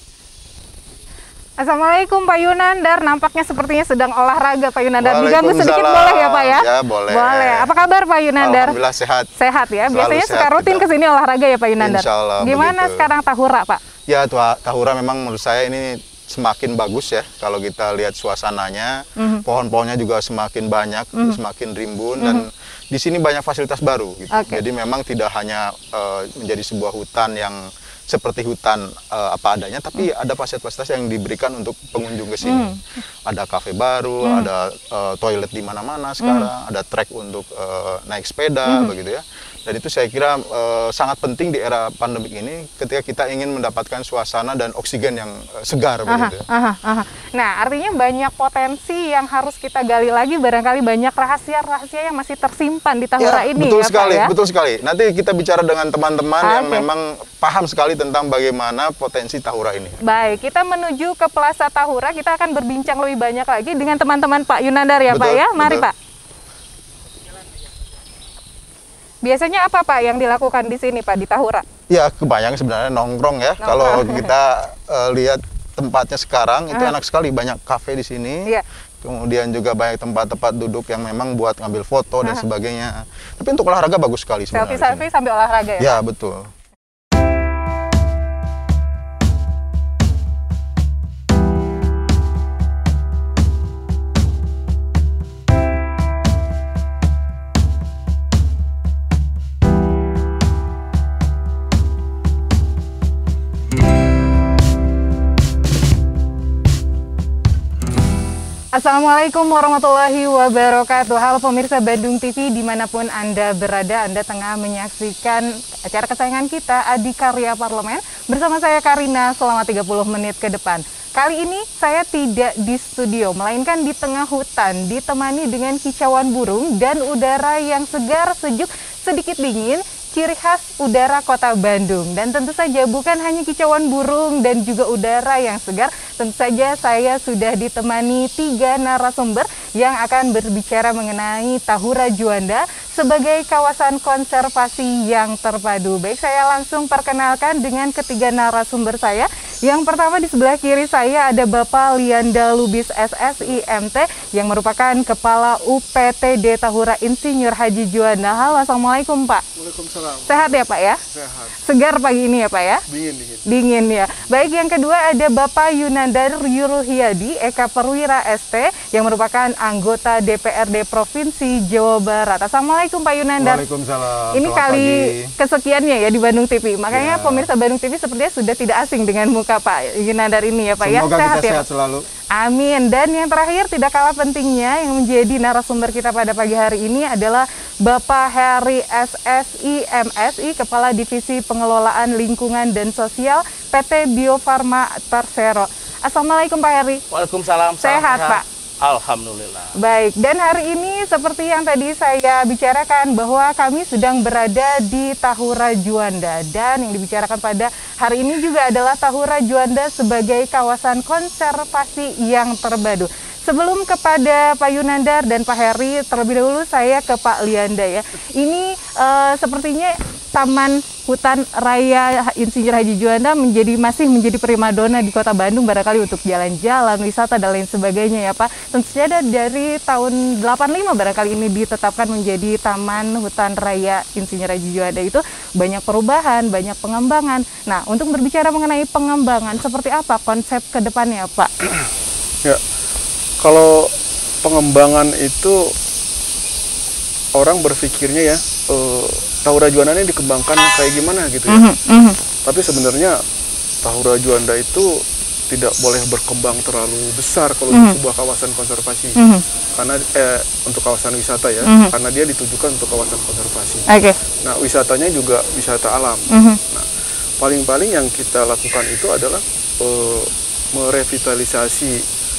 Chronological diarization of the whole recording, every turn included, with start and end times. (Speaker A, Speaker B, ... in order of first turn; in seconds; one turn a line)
Speaker A: 1.6-8.8
Speaker B: 5.0-7.7
Speaker B: 8.4-9.3
Speaker A: 9.4-13.8
Speaker B: 9.9-10.9
Speaker B: 11.8-13.1
Speaker B: 14.1-32.7
Speaker A: 19.2-19.4
Speaker A: 22.2-22.5
Speaker A: 24.3-24.6
Speaker A: 32.4-32.8
Speaker B: 33.2-46.4
Speaker A: 34.2-34.5
Speaker A: 36.2-36.5
Speaker A: 38.6-38.9
Speaker A: 46.1-54.3
Speaker B: 53.2-60.0
Speaker A: 56.4-56.9
Speaker A: 60.0-65.9
Speaker B: 65.1-65.9
Speaker A: 69.2-71.7
Speaker B: 71.9-78.5
Speaker A: 73.6-74.3
Speaker B: 79.0-85.1
Speaker A: 84.5-86.0
Speaker B: 85.8-86.5
Speaker A: 108.7-159.4
Speaker C: 159.6-161.6
Speaker A: 160.2-161.0
Speaker A: 161.6-162.8
Speaker C: 162.9-163.4
Speaker A: 163.5-173.6
Speaker B: 173.4-175.3
Speaker A: 174.3-181.6
Speaker B: 176.9-177.5
Speaker B: 180.8-182.1
Speaker A: 182.3-197.0
Speaker D: 197.1-199.7
Speaker A: 197.8-198.4
Speaker A: 199.8-241.5
Speaker C: 243.4-245.7
Speaker C: 247.3-251.7
Speaker A: 251.5-252.2
Speaker C: 252.4-253.2
Speaker C: 253.8-255.0
Speaker C: 255.5-259.2
Speaker A: 259.2-259.4
Speaker C: 259.8-263.9
Speaker A: 261.6-261.9
Speaker A: 263.9-264.2
Speaker C: 264.4-266.9
Speaker A: 266.3-266.6
Speaker C: 267.4-272.0